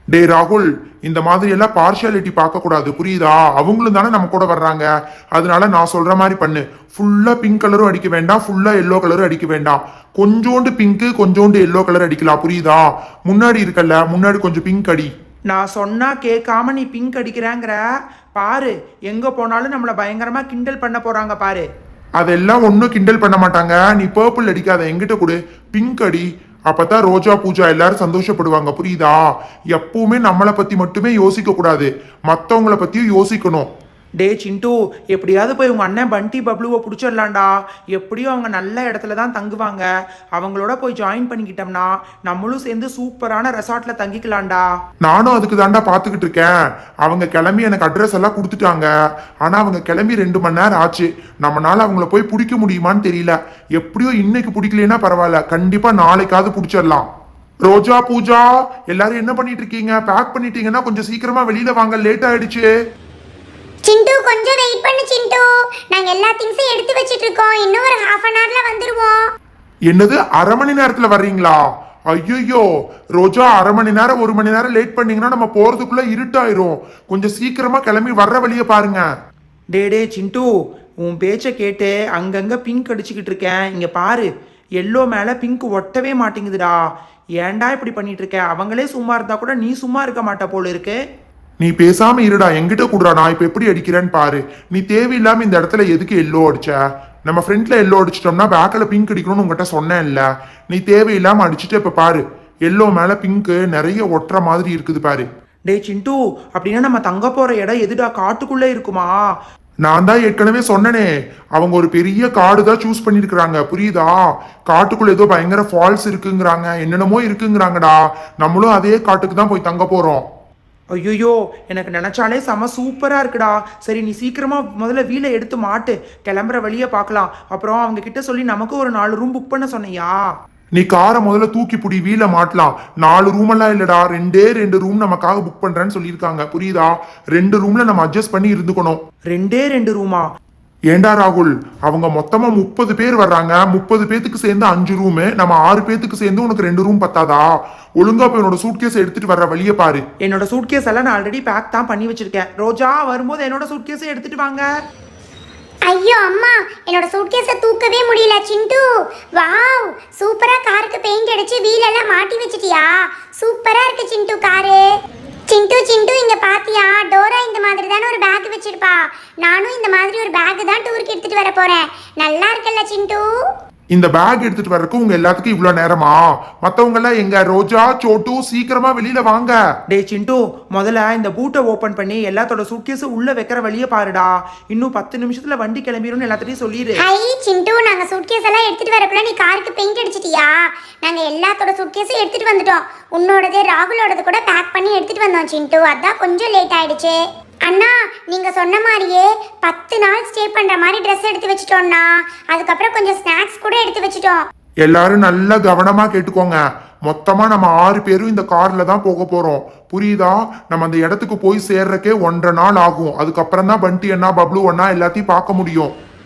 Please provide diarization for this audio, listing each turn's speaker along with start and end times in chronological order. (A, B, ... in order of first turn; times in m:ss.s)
0:00.1-0:15.1 A
0:15.5-0:17.8 B
0:18.3-0:21.6 B
0:22.2-0:29.2 A
0:29.7-0:33.7 A
0:34.2-0:44.6 B
0:45.0-0:48.9 A
0:49.4-0:57.1 A
0:57.6-1:02.7 A
1:03.8-1:09.2 C
1:09.9-1:11.6 A
1:12.1-1:19.0 A
1:19.7-1:20.5 B
1:21.0-1:24.3 B
1:24.8-1:26.8 B
1:27.4-1:31.0 B
1:31.6-1:45.2 A
1:45.7-1:49.2 B
1:49.8-2:00.2 A
2:01.0-2:10.2 B
2:10.7-2:19.0 A
2:19.3-2:20.2 B
2:20.9-2:27.5 A
2:28.0-2:30.0 A
2:30.2-2:34.6 B
2:35.9-2:44.8 C
2:45.5-2:53.2 C
2:53.9-2:59.6 A
2:59.9-3:07.0 B
3:07.0-3:24.4 C
3:24.8-3:35.9 A